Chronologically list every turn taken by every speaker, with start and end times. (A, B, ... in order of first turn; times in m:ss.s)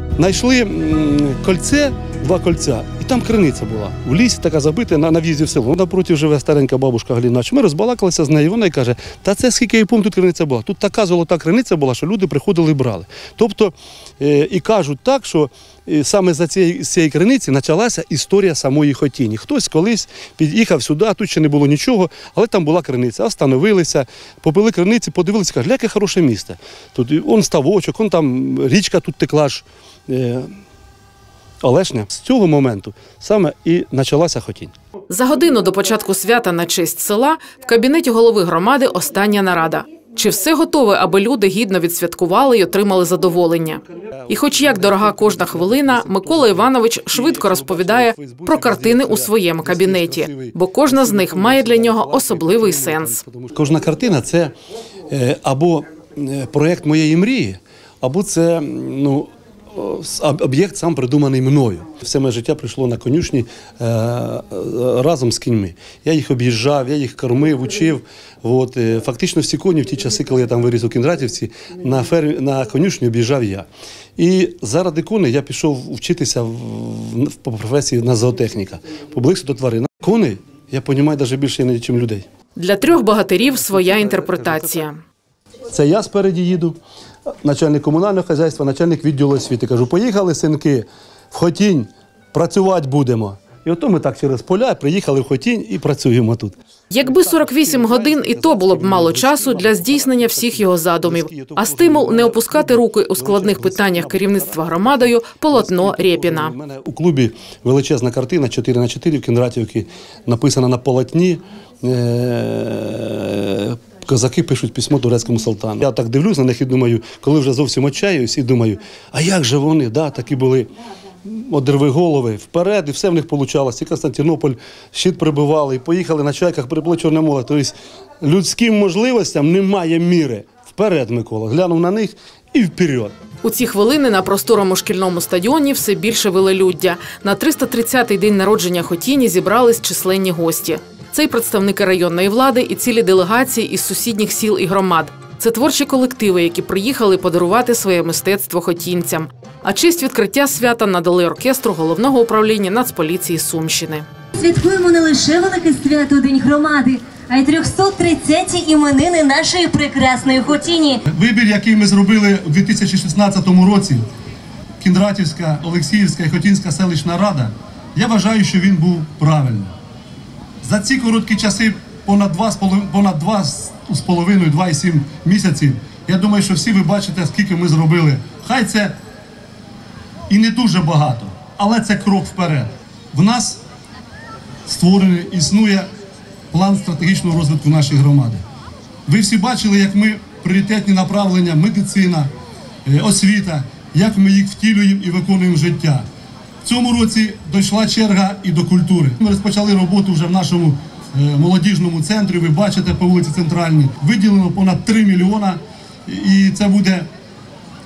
0:00.2-0:30.5 A
0:31.6-0:34.7 A
0:35.1-0:53.2 B
0:43.9-0:54.5 A
0:55.1-1:22.2 A
1:22.6-1:25.0 B
1:23.5-1:24.8 A
1:25.7-1:26.8 A
1:27.4-2:00.7 A
1:36.9-1:46.5 B
2:01.2-2:13.1 A
2:13.4-2:34.0 B
2:34.4-2:41.0 C
2:41.0-2:44.0 A
2:44.8-2:49.7 A
2:50.6-2:58.9 A
3:00.3-3:03.6 A
3:04.7-3:05.9 A
3:06.5-3:08.4 A
3:09.0-3:12.3 A
3:12.8-3:16.0 A
3:16.6-3:27.1 A